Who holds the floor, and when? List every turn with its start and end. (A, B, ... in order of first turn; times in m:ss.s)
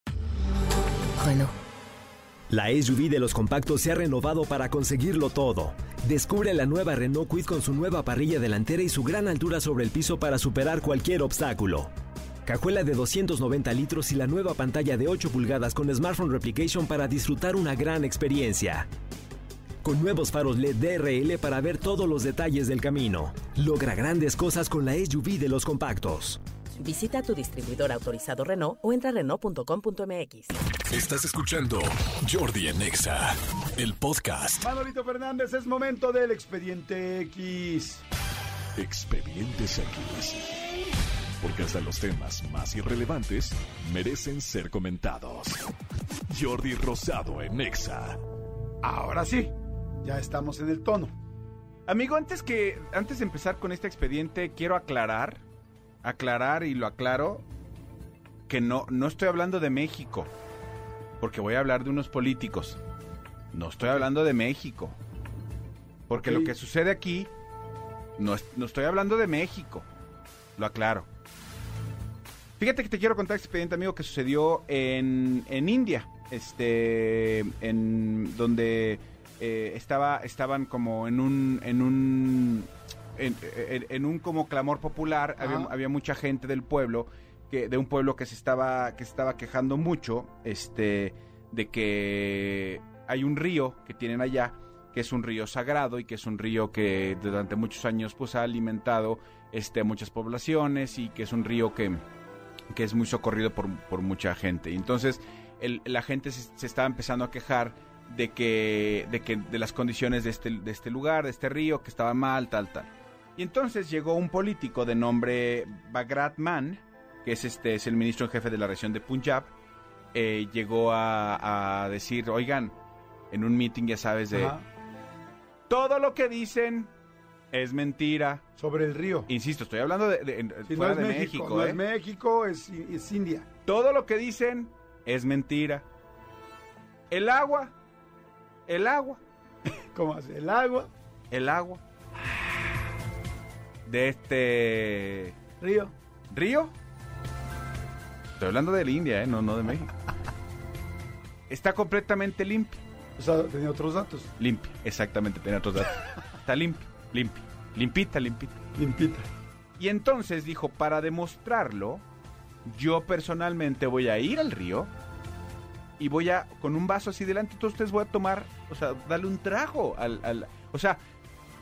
0:02.5-0:11.9 A
0:12.4-0:18.9 A
0:19.8-0:26.4 A
0:26.8-0:30.5 B
0:30.9-0:34.7 C
0:34.6-0:38.0 D
0:38.8-0:40.6 C
0:41.4-0:45.6 C
0:46.3-0:48.2 C
0:48.8-0:51.1 D
0:51.9-0:55.4 E
0:56.0-0:57.4 E
0:58.5-1:00.3 E
1:01.2-1:02.8 E
1:03.5-1:05.0 E
1:06.1-1:07.3 E
1:06.1-1:06.5 D
1:08.2-1:09.8 E
1:10.6-1:11.1 E
1:12.6-1:42.0 E
1:25.4-1:25.7 D
1:42.7-1:59.5 E
2:00.1-2:02.8 E
2:03.3-2:04.5 E
2:04.3-2:04.6 D
2:05.7-2:06.9 E
2:07.5-2:08.4 E
2:08.6-2:09.3 D
2:09.3-2:11.8 E
2:10.7-2:13.5 D
2:13.6-2:15.8 E
2:17.1-2:17.7 E
2:18.7-2:19.2 E
2:19.9-2:20.9 D
2:21.3-2:21.8 E
2:23.8-2:25.4 E
2:25.6-2:25.9 D
2:26.3-2:26.7 E
2:28.4-2:29.9 E
2:31.5-2:32.8 E
2:33.2-2:34.3 D
2:34.4-2:38.6 E
2:38.8-2:39.2 D
2:39.8-2:42.0 E
2:42.6-2:44.9 E
2:46.0-2:51.0 E